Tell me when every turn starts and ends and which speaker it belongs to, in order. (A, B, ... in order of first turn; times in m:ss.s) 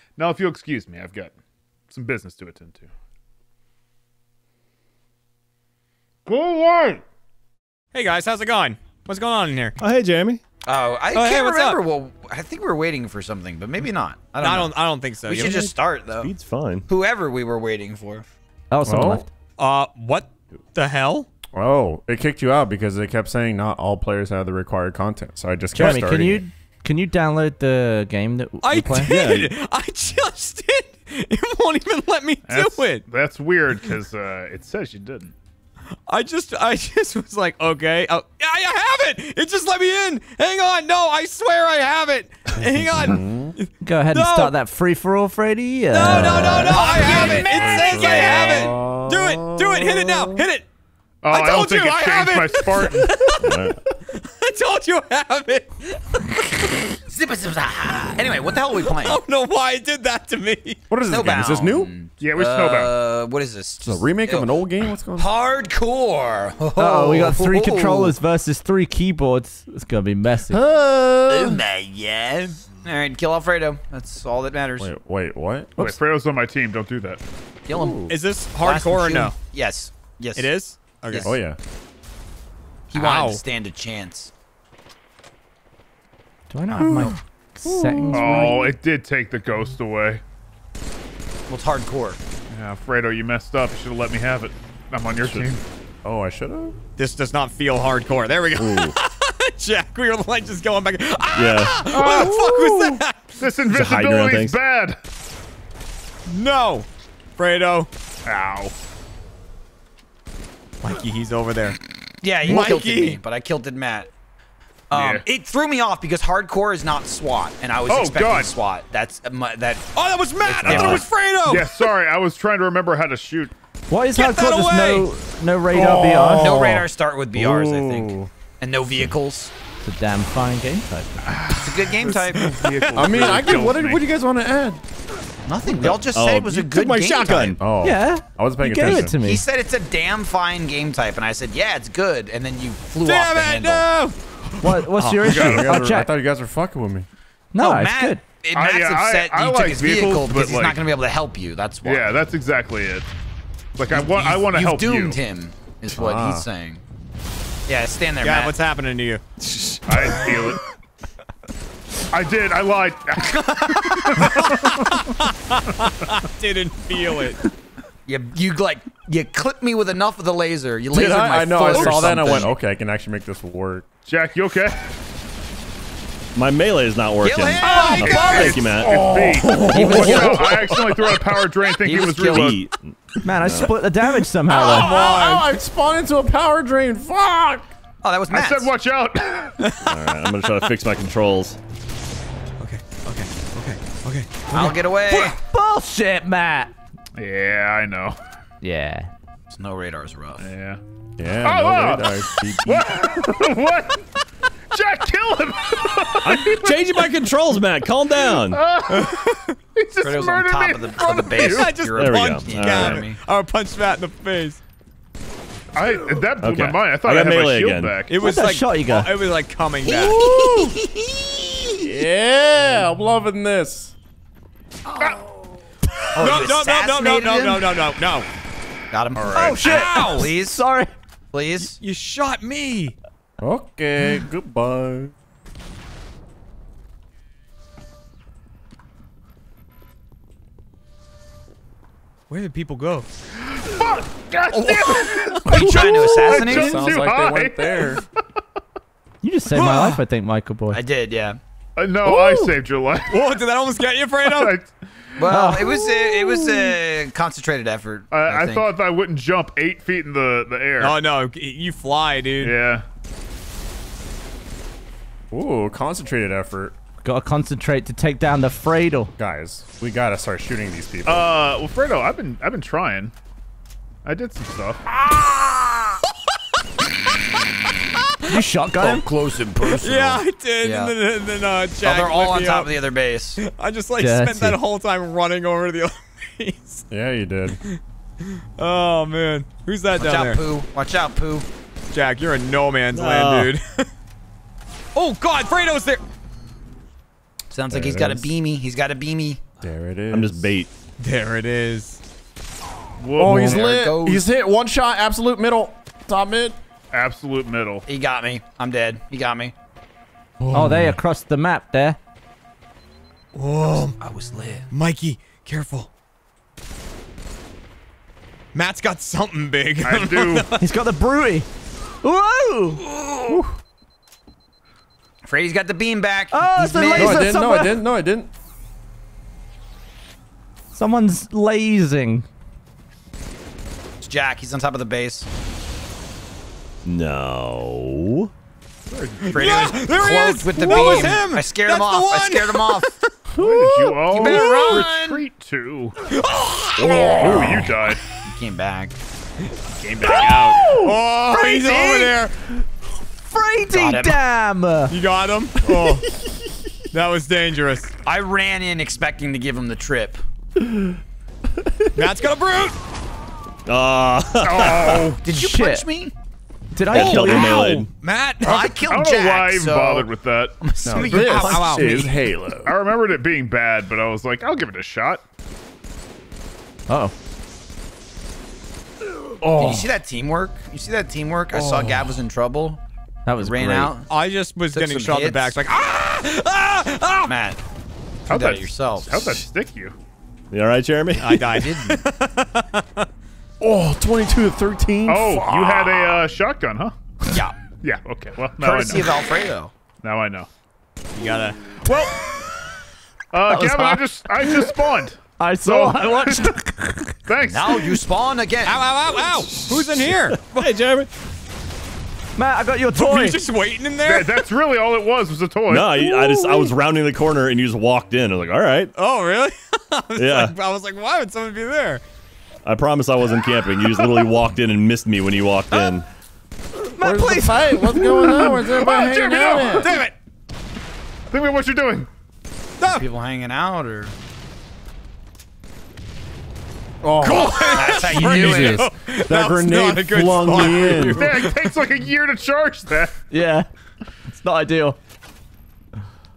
0:00.2-0:01.3 A
0:01.9-0:02.9 A
0:06.3-0:07.0 A
0:07.9-0:09.8 B
0:09.8-0:10.4 C
0:10.6-0:16.3 D
0:11.1-0:11.8 B
0:14.4-0:15.7 B
0:15.3-0:16.8 C
0:16.9-0:18.3 D
0:18.7-0:19.3 E
0:18.9-0:19.3 F
0:19.6-0:21.3 B
0:21.6-0:26.4 F
0:25.7-0:29.1 E
0:28.6-0:33.0 B
0:29.0-0:29.5 C
0:32.5-0:35.3 A
0:36.1-0:44.6 B
0:42.6-0:43.6 F
0:43.8-0:48.7 E
0:45.9-0:50.7 B
0:46.0-0:50.4 F
0:46.7-0:48.4 D
0:51.2-0:53.3 A
0:51.3-0:53.6 B
0:53.4-0:53.8 C
0:54.1-0:56.7 B
0:57.1-0:59.2 D
0:58.9-1:00.8 B
1:00.9-1:01.9 F
1:01.0-1:04.6 D
1:02.2-1:02.9 A
1:03.8-1:05.3 F
1:05.1-1:08.2 D
1:06.8-1:10.6 E
1:10.5-1:11.6 F
1:11.3-1:14.9 D
1:14.8-1:16.0 F
1:15.8-1:17.2 A
1:17.7-1:18.0 D
1:17.7-1:18.2 F
1:18.1-1:19.4 B
1:18.6-1:20.5 D
1:20.4-1:21.3 B
1:21.1-1:21.4 D
1:21.2-1:21.6 F
1:22.9-1:24.3 D
1:22.9-1:23.4 B
1:26.5-1:28.7 E
1:26.7-1:28.7 F
1:28.1-1:30.2 A
1:31.5-1:32.2 D
1:32.5-1:35.6 A
1:36.0-1:36.8 F
1:37.0-1:43.3 B
1:38.6-1:39.0 C
1:41.3-1:41.9 C
1:41.9-1:45.0 A
1:43.7-1:44.6 C
1:46.3-1:47.9 B
1:48.2-1:48.7 A
1:50.8-1:51.8 B
1:52.2-1:54.1 D
1:52.4-1:53.2 B
1:54.9-2:01.1 D
1:54.9-1:55.3 A
1:57.9-1:58.5 A
2:00.0-2:01.9 B
2:00.7-2:01.1 C
2:01.4-2:03.5 A
2:03.9-2:06.6 E
2:04.2-2:05.1 B
2:05.7-2:08.3 F
2:06.4-2:09.5 D
2:09.8-2:11.3 E
2:11.4-2:14.0 A
2:11.5-2:12.6 D
2:12.4-2:13.2 B
2:13.0-2:14.8 F
2:15.5-2:17.6 D
2:15.6-2:16.0 F
2:16.1-2:17.6 C
2:17.6-2:19.2 F
2:17.8-2:19.4 E
2:18.9-2:23.9 D
2:23.0-2:25.7 B
2:24.6-2:26.1 E
2:25.2-2:25.6 A
2:25.4-2:27.1 F
2:27.5-2:28.2 E
2:27.6-2:32.2 D
2:28.5-2:30.8 A
2:31.8-2:33.1 A
2:33.8-2:35.2 A
2:33.9-2:36.8 D
2:35.9-2:36.5 F
2:37.7-2:38.5 D
2:38.2-2:39.2 B
2:39.4-2:40.4 C
2:39.9-2:40.6 A
2:42.1-2:45.0 A
2:43.3-2:44.2 D
2:44.0-2:47.4 B
2:48.1-2:52.5 D
2:50.9-2:53.9 F
2:51.7-2:52.4 B
2:54.1-2:54.8 A
2:56.4-2:59.1 C
2:57.2-2:58.7 D
2:57.6-3:02.6 A
2:58.8-3:01.2 F
2:59.5-3:00.9 D
3:01.8-3:02.6 D
3:02.3-3:03.7 C
3:03.2-3:04.9 E
3:04.5-3:05.5 B
3:04.5-3:07.7 F
3:08.0-3:08.7 D
3:08.3-3:09.7 A
3:09.6-3:10.0 B
3:09.8-3:11.6 C
3:12.6-3:15.3 B
3:14.5-3:15.4 D
3:15.1-3:16.7 E
3:17.2-3:18.2 A
3:18.6-3:19.1 E
3:19.5-3:20.5 D
3:20.4-3:20.8 A
3:21.2-3:23.4 F
3:21.4-3:24.1 A
3:24.7-3:27.0 A
3:26.2-3:28.7 C
3:28.3-3:31.8 A
3:28.9-3:29.6 B
3:30.0-3:33.2 D
3:31.3-3:34.6 B
3:32.0-3:33.0 C
3:35.8-3:38.2 A
3:36.4-3:38.0 C
3:38.1-3:40.2 B
3:38.2-3:39.1 E
3:39.8-3:41.9 D
3:41.8-3:43.9 F
3:46.0-3:48.3 B
3:46.2-3:47.7 D
3:48.9-3:50.6 D
3:49.2-3:49.6 A
3:49.3-3:50.9 E
3:49.6-3:50.3 B
3:51.3-3:51.8 D
3:51.6-3:53.0 B
3:53.4-3:55.1 F
4:02.3-4:03.1 B
4:03.4-4:08.0 A
4:04.5-4:06.3 B
4:05.5-4:07.0 D
4:05.6-4:08.0 F
4:09.2-4:10.8 E
4:09.5-4:10.0 B
4:10.7-4:11.4 D
4:11.8-4:13.4 A
4:12.1-4:12.5 F
4:13.1-4:14.5 B
4:14.2-4:15.4 A
4:15.2-4:18.7 D
4:15.3-4:16.4 E
4:18.1-4:21.0 A
4:20.8-4:22.6 B
4:22.4-4:22.9 A
4:25.3-4:26.8 F
4:27.0-4:29.1 E
4:29.2-4:31.3 F
4:31.1-4:33.1 A
4:34.0-4:34.8 A
4:35.0-4:36.1 B
4:38.2-4:39.0 E
4:38.8-4:41.0 D
4:39.6-4:42.8 B
4:41.8-4:43.4 D
4:43.4-4:46.8 B
4:44.0-4:44.6 E
4:46.9-4:47.6 F
4:47.6-4:50.4 B
4:50.0-4:51.5 D
4:51.9-4:53.9 B
4:52.9-4:53.5 C
4:55.0-4:56.0 B
4:57.5-4:59.4 D
4:57.7-4:58.3 F
4:59.6-5:00.5 F
5:00.1-5:00.7 C
5:01.0-5:02.0 B
5:03.0-5:03.7 A
5:03.2-5:06.6 F
5:03.2-5:04.2 D
5:06.9-5:07.8 A
5:07.9-5:09.6 D
5:10.4-5:11.0 F
5:10.5-5:12.0 E
5:13.3-5:14.0 B
5:14.0-5:14.7 D
5:14.7-5:15.9 B
5:18.5-5:20.6 B
5:19.8-5:20.5 A
5:20.6-5:21.5 E
5:22.0-5:22.8 E
5:22.9-5:23.4 D
5:25.2-5:27.3 D
5:26.3-5:27.8 E
5:27.0-5:28.3 F
5:30.8-5:32.3 E
5:34.0-5:35.3 D
5:36.9-5:38.3 C
5:38.9-5:39.6 A
5:39.2-5:43.0 B
5:39.3-5:42.9 D
5:43.4-5:44.9 F
5:43.4-5:46.0 A
5:44.1-5:45.2 D
5:46.1-5:47.4 B
5:46.8-5:49.0 D
5:47.0-5:48.0 A
5:49.8-5:52.4 B
5:50.2-5:52.2 E
5:50.4-5:50.9 F
5:53.2-5:54.9 E
5:53.7-5:54.2 D
5:54.9-5:56.1 B
5:55.6-5:56.7 F
5:56.9-5:57.9 B
5:58.0-6:00.2 D
6:00.6-6:01.9 F
6:02.0-6:02.8 B
6:03.7-6:05.1 C
6:04.4-6:05.2 A
6:05.2-6:06.1 D
6:05.3-6:05.9 E
6:06.7-6:07.8 E
6:06.9-6:08.7 B
6:06.9-6:07.9 C
6:08.4-6:10.1 D
6:08.5-6:10.6 A
6:10.6-6:12.2 D
6:10.8-6:12.8 F
6:11.0-6:12.1 B
6:12.6-6:15.2 A
6:16.9-6:17.1 E
6:19.4-6:20.0 F
6:19.6-6:22.8 D
6:21.5-6:22.1 F
6:23.3-6:23.9 E
6:23.4-6:24.1 D
6:24.1-6:27.3 B
6:24.7-6:25.6 D
6:27.3-6:27.6 D
6:28.3-6:29.4 D
6:28.3-6:30.0 A
6:30.5-6:31.5 C
6:31.2-6:33.1 B
6:31.3-6:32.0 D
6:33.6-6:36.2 F
6:35.1-6:36.9 A
6:37.3-6:37.6 D
6:37.8-6:39.2 A
6:38.6-6:39.8 D
6:40.0-6:40.5 A
6:41.2-6:41.7 B
6:41.8-6:42.3 A
6:43.3-6:46.5 A
6:43.5-6:44.6 E
6:45.4-6:47.2 E
6:47.3-6:48.0 A
6:47.5-6:48.8 D
6:48.6-6:50.7 B
6:49.5-6:51.1 C
6:52.4-6:53.4 E
6:52.9-6:54.4 B
6:54.0-6:56.0 A
6:55.7-6:58.9 C
6:56.2-6:56.7 E
6:59.0-7:02.0 B
7:00.2-7:00.5 C
7:02.6-7:06.1 C
7:06.9-7:08.0 E
7:07.0-7:10.0 F
7:08.4-7:09.9 A
7:08.9-7:10.2 B
7:11.3-7:12.1 A
7:12.8-7:13.0 B
7:12.8-7:14.2 D
7:17.0-7:21.3 F
7:17.2-7:21.8 B
7:17.7-7:18.9 D
7:20.9-7:23.2 A
7:23.3-7:23.7 E
7:24.3-7:25.0 E